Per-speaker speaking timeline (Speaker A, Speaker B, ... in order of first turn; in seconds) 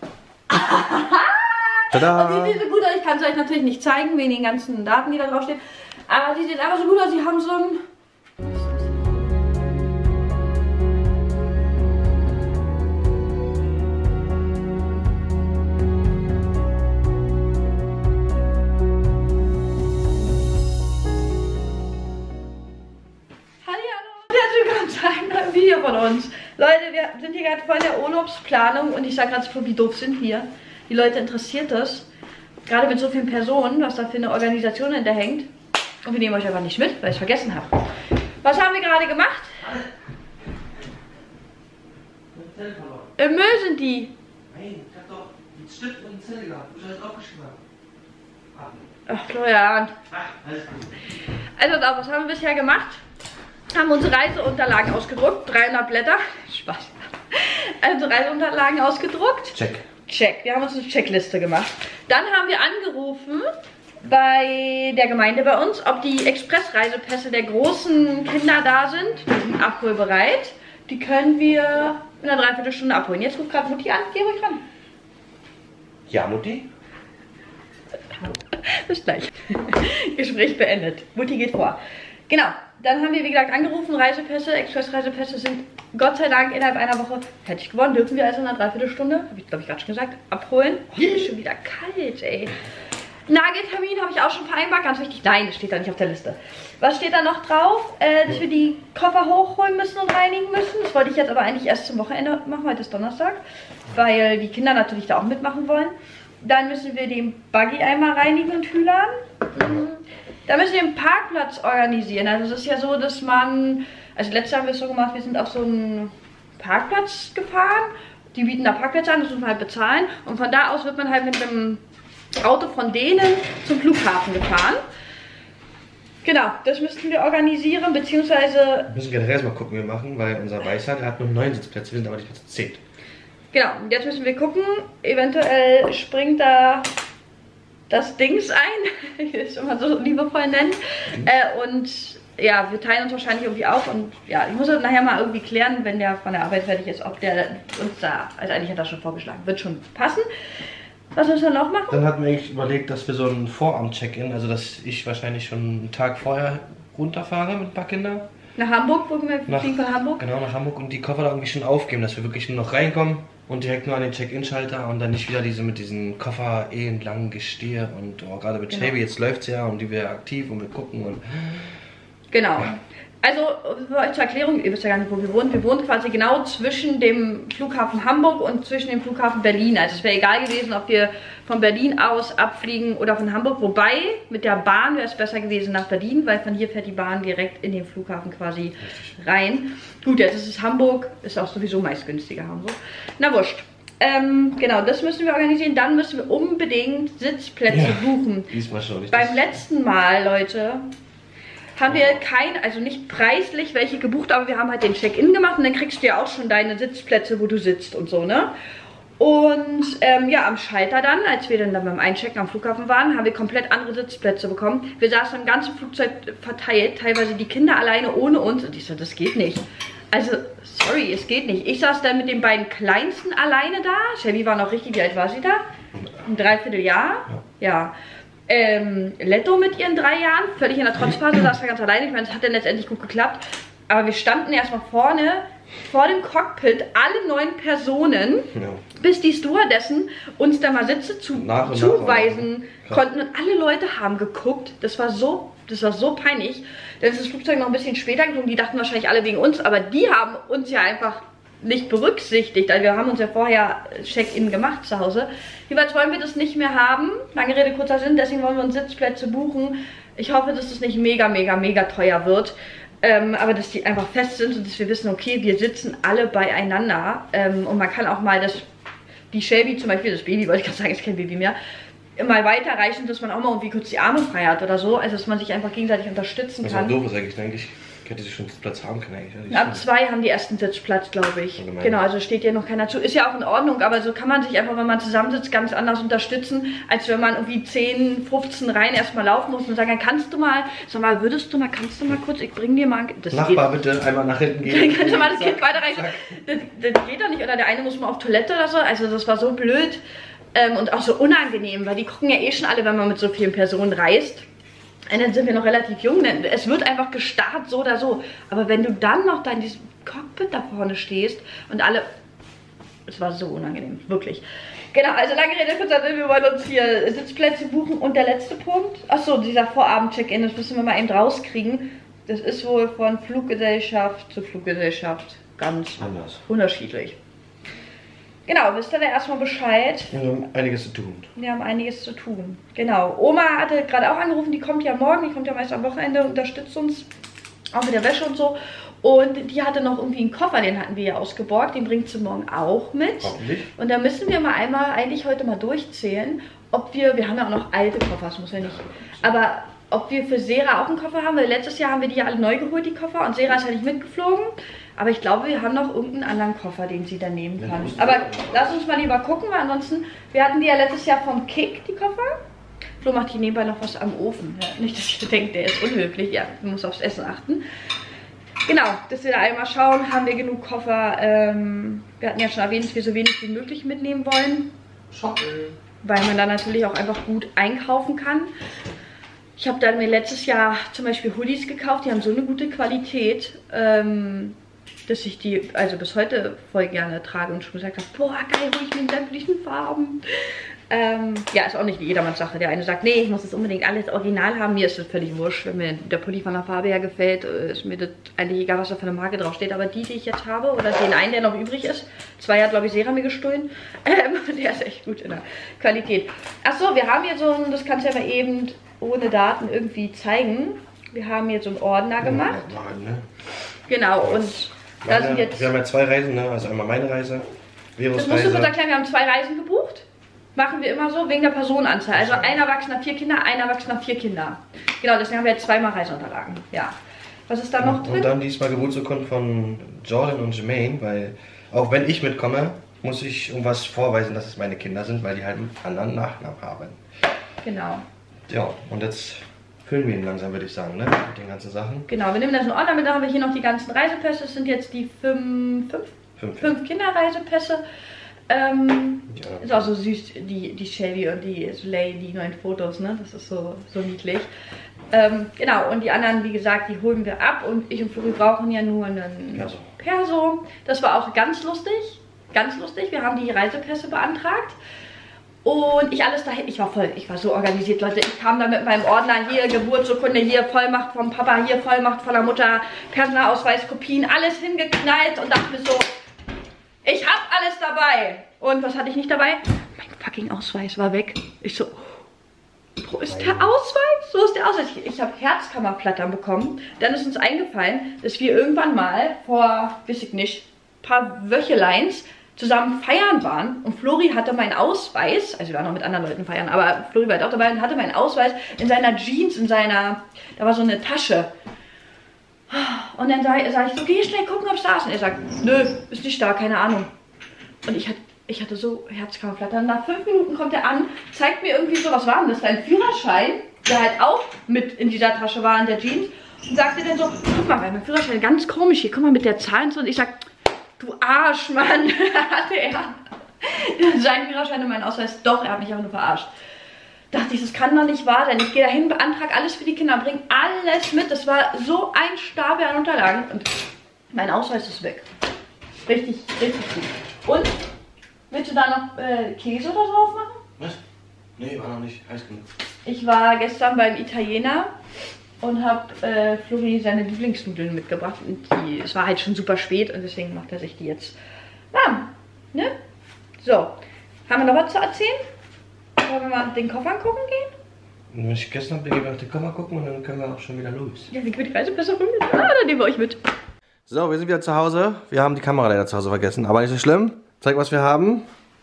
Speaker A: 0.5-7.8, 8.4-9.2, 23.6-32.1, 32.7-35.5, 36.0-37.9, 38.4-39.5, 43.2-44.1, 49.1-49.9, 51.6-53.0, 53.7-59.6, 60.1-63.5, 64.0-74.6, 78.5-81.8, 82.3-92.6, 93.3-121.8, 122.4-124.8, 126.2-128.9, 133.5-136.9, 137.9-150.3, 151.1-152.0, 158.6-160.2, 168.7-168.9, 172.3-198.5, 199.1-200.8, 201.8-208.5, 209.2-225.6, 226.2-227.9, 228.5-268.6, 269.3-271.6, 272.2-277.0, 279.5-293.8, 294.6-300.0, 300.5-304.5, 305.1-312.1, 313.1-327.2, 328.5-330.1, 331.4-337.1, 337.7-362.4, 363.0-367.6, 368.7-374.7, 376.0-378.5, 379.6-384.6, 385.1-412.7, 413.9-415.7, 418.1-426.9, 427.5-428.3, 437.6-438.0, 442.1-447.8, 448.5-454.5, 455.1-464.8, 465.6-476.1, 477.0-482.1, 483.0-501.5, 502.7-507.1, 507.9-520.4, 521.0-526.5, 527.3-533.8, 534.3-535.3, 536.1-537.7, 538.5-540.6, 543.1-544.9, 545.6-551.4, 551.9-552.9, 553.6-554.0, 554.5-555.4, 556.2-557.7, 561.3-563.4
Speaker B: 1.9-2.6, 42.3-43.1, 44.5-47.6, 50.1-50.9, 59.5-59.8, 76.1-76.7, 128.9-132.8, 151.9-158.2, 159.5-171.6, 197.7-199.4, 201.9-202.2, 238.5-238.8, 241.3-243.0, 276.6-279.8, 281.6-282.0, 293.3-296.2, 326.0-326.4, 330.1-331.3, 343.2-343.7, 348.6-349.2, 357.6-358.8, 375.1-375.8, 412.2-413.3, 415.0-418.7, 422.1-422.5, 427.8-437.0, 438.5-442.1, 446.4-446.8, 449.3-449.9, 459.5-459.9, 483.3-483.7, 541.6-542.7, 558.3-561.3, 564.1-568.5